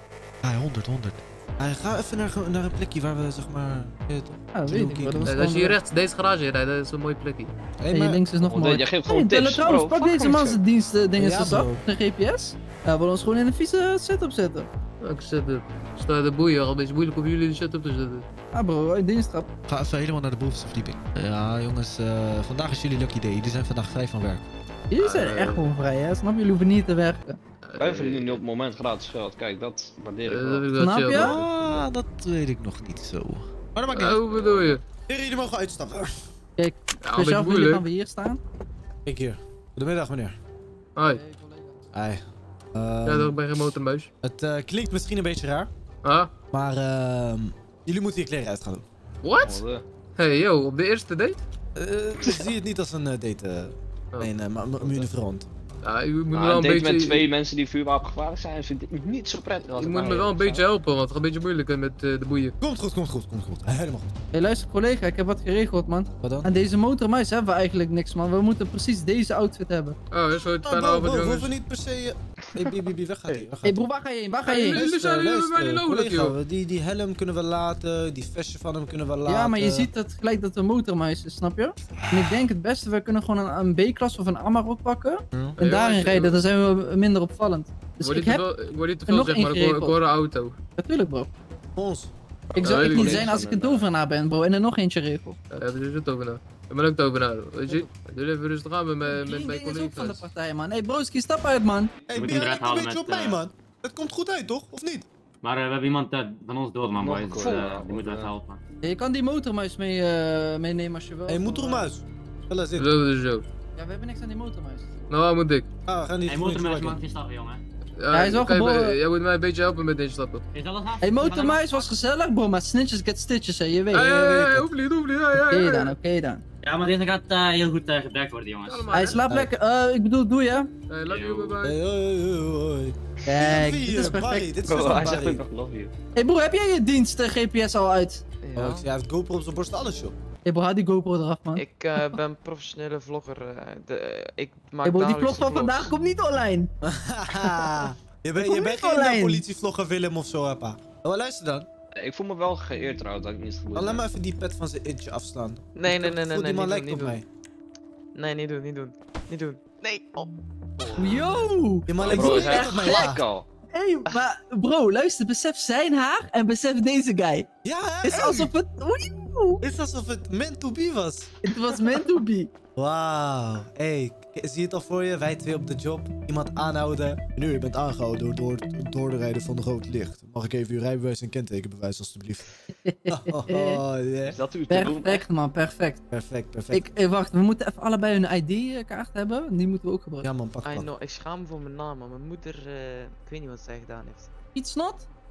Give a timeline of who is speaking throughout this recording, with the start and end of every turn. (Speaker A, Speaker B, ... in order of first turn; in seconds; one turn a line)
Speaker A: 0.4-5.4
Speaker B: 4.5-5.8
Speaker C: 5.2-7.5
Speaker A: 7.8-8.2
Speaker B: 7.9-14.7
Speaker D: 8.4-10.6
Speaker A: 11.2-11.8
Speaker C: 15.0-18.2
Speaker B: 18.5-19.5
Speaker A: 19.7-24.4
Speaker B: 24.9-27.4
Speaker C: 25.0-25.6
Speaker C: 27.6-28.4
Speaker D: 27.8-30.7
Speaker C: 30.2-31.5
Speaker B: 30.8-31.4
Speaker A: 31.1-36.1
Speaker C: 33.9-34.8
Speaker B: 36.6-38.4
Speaker C: 37.0-37.8
Speaker A: 39.0-40.4
Speaker C: 41.0-41.2
Speaker B: 41.0-41.8
Speaker A: 41.9-42.2
Speaker A: 42.7-43.4
Speaker C: 43.0-44.1
Speaker A: 44.2-45.7
Speaker C: 46.0-46.3
Speaker A: 46.5-48.8
Speaker C: 49.2-49.6
Speaker D: 49.4-49.8
Speaker C: 50.1-51.4
Speaker A: 51.7-55.5
Speaker C: 55.8-57.2
Speaker D: 56.3-60.6
Speaker C: 59.7-62.5
Speaker A: 62.6-64.1
Speaker B: 64.3-70.0
Speaker A: 66.2-66.5
Speaker C: 70.1-71.5
Speaker A: 70.6-73.8
Speaker B: 73.6-74.8
Speaker C: 74.5-76.3
Speaker A: 74.7-79.9
Speaker B: 79.3-88.4
Speaker A: 82.0-82.4
Speaker A: 85.3-85.6
Speaker C: 85.6-86.4
Speaker C: 88.0-90.6
Speaker B: 89.1-90.0
Speaker B: 90.8-91.3
Speaker A: 91.8-92.1
Speaker D: 92.5-93.9
Speaker B: 92.5-95.4
Speaker C: 92.6-93.3
Speaker C: 95.5-100.3
Speaker B: 99.0-101.9
Speaker A: 102.1-105.0
Speaker E: 102.1-103.4
Speaker E: 105.4-108.6
Speaker D: 107.0-108.3
Speaker B: 108.8-111.9
Speaker A: 111.3-112.9
Speaker C: 112.8-113.5
Speaker B: 113.8-115.0
Speaker C: 115.1-115.7
Speaker A: 115.9-117.0
Speaker E: 116.2-117.6
Speaker C: 118.0-120.4
Speaker B: 118.1-119.0
Speaker E: 120.5-121.9
Speaker B: 121.0-124.1
Speaker A: 123.9-124.7
Speaker C: 123.9-126.0
Speaker B: 125.5-126.4
Speaker E: 126.6-128.9
Speaker C: 128.6-129.2
Speaker B: 128.9-130.7
Speaker C: 130.9-131.8
Speaker E: 131.1-131.6
Speaker A: 131.6-135.4
Speaker B: 133.3-134.5
Speaker D: 134.7-135.9
Speaker B: 136.2-138.2
Speaker F: 138.4-138.9
Speaker A: 138.5-140.2
Speaker B: 140.4-141.6
Speaker F: 141.6-146.0
Speaker B: 144.8-146.7
Speaker A: 146.8-151.7
Speaker B: 147.3-147.8
Speaker B: 148.4-149.4
Speaker D: 151.9-154.0
Speaker A: 153.7-157.2
Speaker F: 155.7-157.2
Speaker F: 158.1-161.1
Speaker B: 160.9-163.1
Speaker A: 161.9-163.2
Speaker D: 162.0-163.4
Speaker B: 163.7-167.5
Speaker A: 167.6-168.5
Speaker B: 168.0-169.6
Speaker A: 169.6-171.4
Speaker B: 171.4-172.5
Speaker A: 172.8-182.4
Speaker B: 182.7-183.8
Speaker A: 183.1-184.4
Speaker D: 184.2-185.2
Speaker B: 184.7-186.0
Speaker A: 186.1-186.8
Speaker B: 186.7-190.3
Speaker A: 190.2-190.9
Speaker F: 190.6-194.3
Speaker B: 194.5-195.1